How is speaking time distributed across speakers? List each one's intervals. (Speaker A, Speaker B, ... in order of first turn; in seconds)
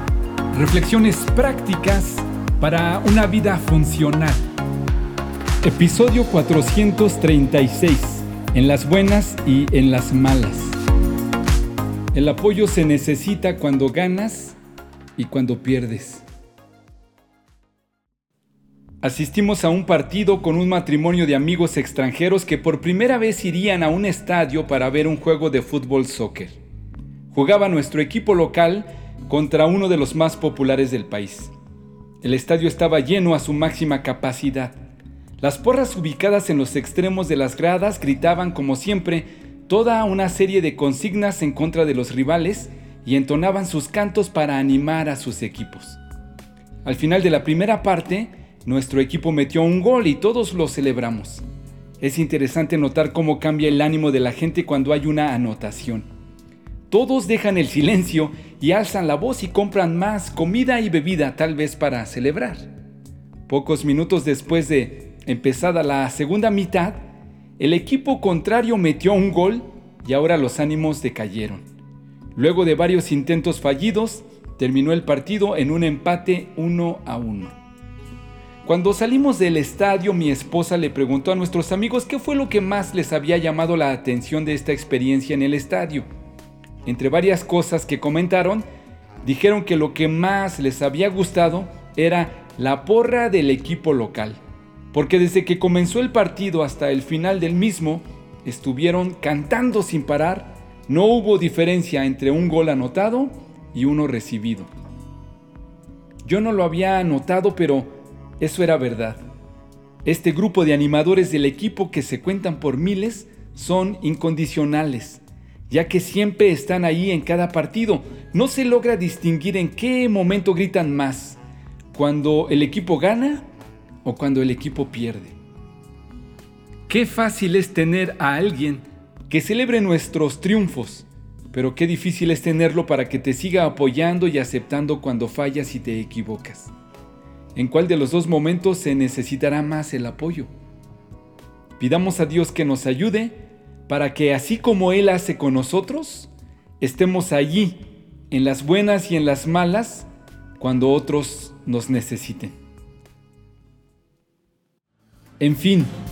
Speaker A: 0.5-4.4, 5.6-10.7, 12.1-14.6, 15.2-16.2, 19.0-26.5, 27.3-31.5, 32.2-34.7, 35.4-46.0, 46.8-51.4, 52.0-56.0, 56.9-62.7, 63.5-67.0, 67.6-71.6, 72.3-77.5, 78.6-86.0, 86.8-88.7, 89.2-94.4, 94.9-104.7, 106.2-109.2, 110.0-121.4, 121.9-123.4, 124.0-125.3, 126.9-136.7, 137.5-140.5, 141.8-146.3, 146.8-150.1, 150.6-152.5, 155.4-155.9